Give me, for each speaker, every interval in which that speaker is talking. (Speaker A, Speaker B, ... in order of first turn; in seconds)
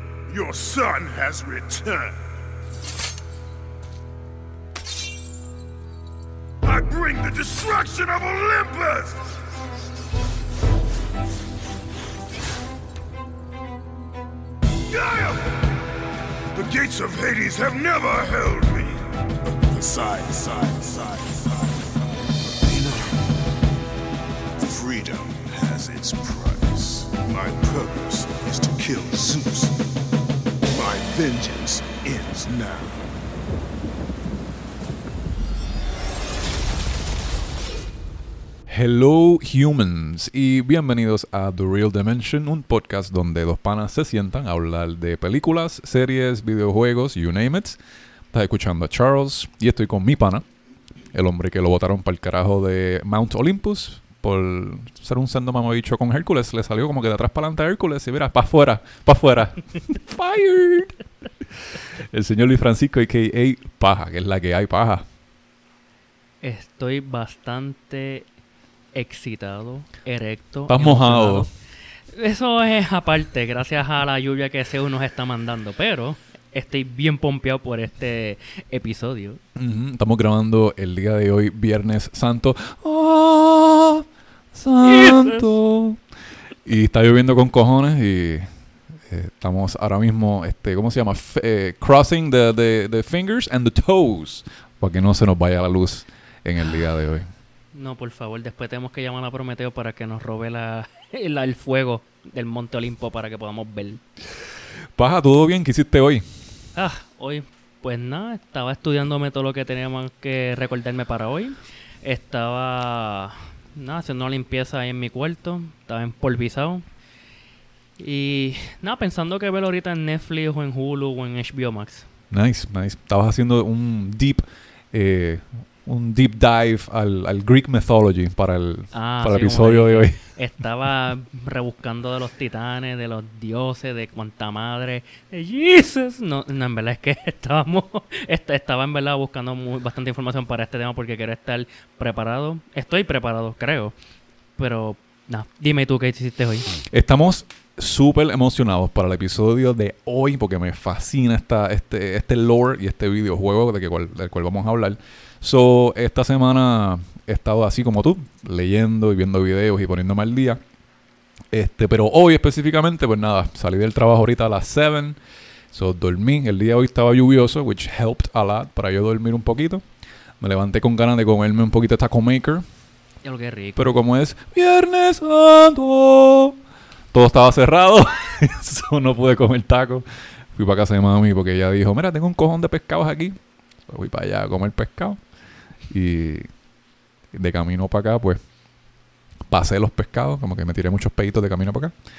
Speaker A: 0.3-2.3, 6.6-9.2, 14.9-15.7, 16.5-21.9, 22.6-23.3, 24.6-29.9, 30.6-33.0
Speaker B: 38.7-47.8, 48.3-50.5, 51.1-61.0, 61.8-65.0, 70.7-71.5, 79.5-86.0, 86.7-88.5, 89.0-97.3, 105.0-106.3, 122.3-130.2, 146.8-160.6, 161.5-165.2, 165.7-169.8, 170.4-172.7, 173.8-176.6, 177.1-185.2, 185.9-186.5, 187.3-188.4, 189.5-192.0
Speaker C: 66.4-68.3, 68.9-71.5, 72.1-79.4, 84.8-85.5, 97.7-104.0, 106.8-116.8, 118.0-122.1, 128.9-143.9, 144.6-146.7, 173.2-173.9